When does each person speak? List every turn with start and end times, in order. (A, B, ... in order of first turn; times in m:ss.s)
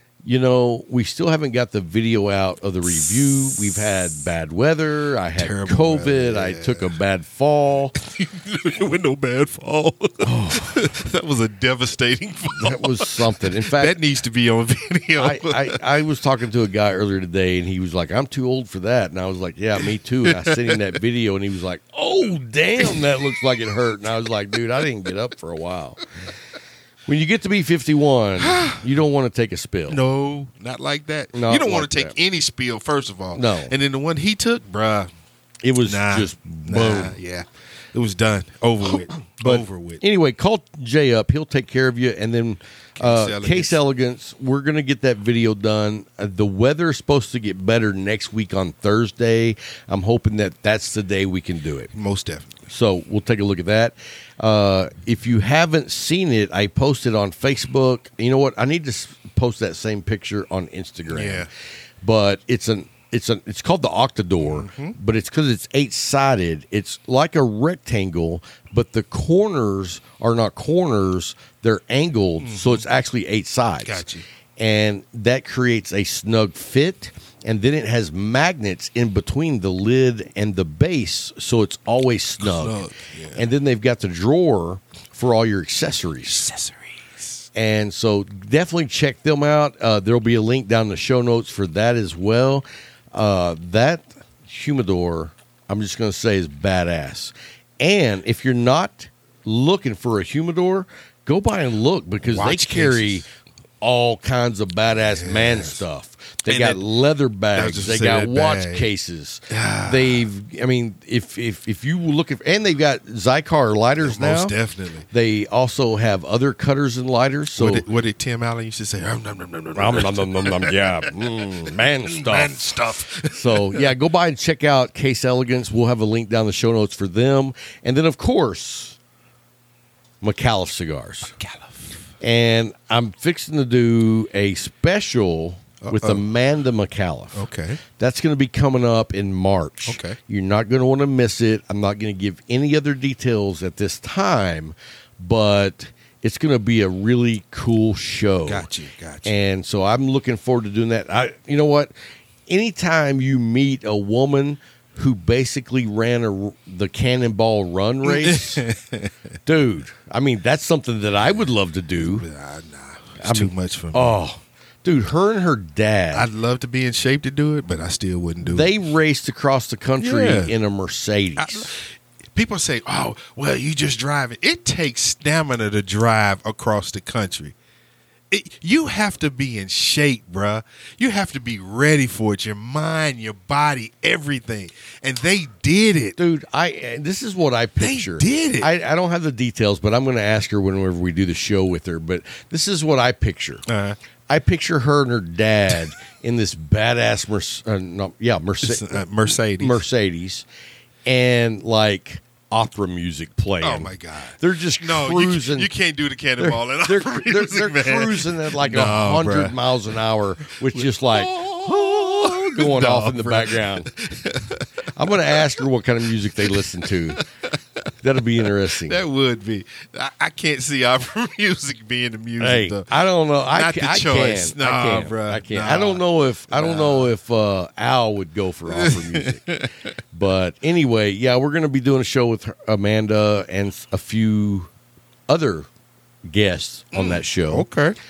0:00.2-0:07.9 A
0:05.4-0:07.0 B
0:08.0-0:15.8 B
0:10.2-0:10.8 A
0:12.5-0:14.0 A
0:15.2-0:26.0 A
0:20.2-0:20.8 B
0:27.1-0:30.0 A
0:28.4-0:28.8 B
0:29.9-0:35.1 B
0:31.3-0:32.1 A
0:33.3-0:33.7 A
0:35.6-0:37.2 A
0:35.8-0:40.0 B
0:39.4-0:51.9 A
0:43.0-0:43.8 B
0:51.9-0:52.5 B
0:52.7-1:01.5 A
1:01.1-1:01.5 B
1:02.0-1:14.0 A
1:04.4-1:05.0 B
1:12.4-1:12.8 B
1:13.8-1:14.2 B
1:14.6-1:22.8 A
1:22.4-1:23.4 B
1:23.3-1:26.5 A
1:26.2-1:27.3 B
1:27.5-1:54.5 A
1:42.2-1:43.2 B
1:45.0-1:45.8 B
1:46.4-1:46.8 B
1:47.5-1:48.9 B
1:49.5-1:50.3 B
1:54.0-1:55.0 B
1:55.1-1:57.8 A
1:57.6-2:01.1 B
1:59.7-2:09.0 A
2:02.0-2:03.9 B
2:10.2-2:11.4 A
2:11.4-2:12.0 B
2:12.2-2:17.4 A
2:15.8-2:16.2 B
2:17.3-2:17.8 B
2:18.0-2:28.7 A
2:19.9-2:20.2 B
2:28.4-2:29.3 B
2:29.2-2:31.9 A
2:32.5-2:38.6 A
2:38.0-2:39.1 B
2:39.4-2:42.2 A
2:42.0-2:44.1 B
2:43.2-2:46.3 A
2:46.1-2:48.7 B
2:48.4-2:51.7 A
2:50.0-2:50.5 B
2:51.4-2:57.5 B
2:58.3-3:06.2 B
3:06.2-3:13.6 A
3:07.8-3:08.7 B
3:13.7-3:14.0 B
3:14.3-3:20.4 A
3:18.6-3:19.8 B
3:21.0-3:25.7 A
3:23.6-3:29.6 B
3:26.4-3:33.9 A
3:30.7-3:35.4 B
3:34.9-3:37.2 A
3:37.1-3:37.5 B
3:38.0-3:39.0 A
3:38.6-3:42.9 B
3:42.4-3:54.7 A
3:43.5-3:47.1 B
3:48.7-3:49.7 B
3:55.3-3:55.7 A
3:56.2-3:57.7 A
3:56.9-3:58.0 B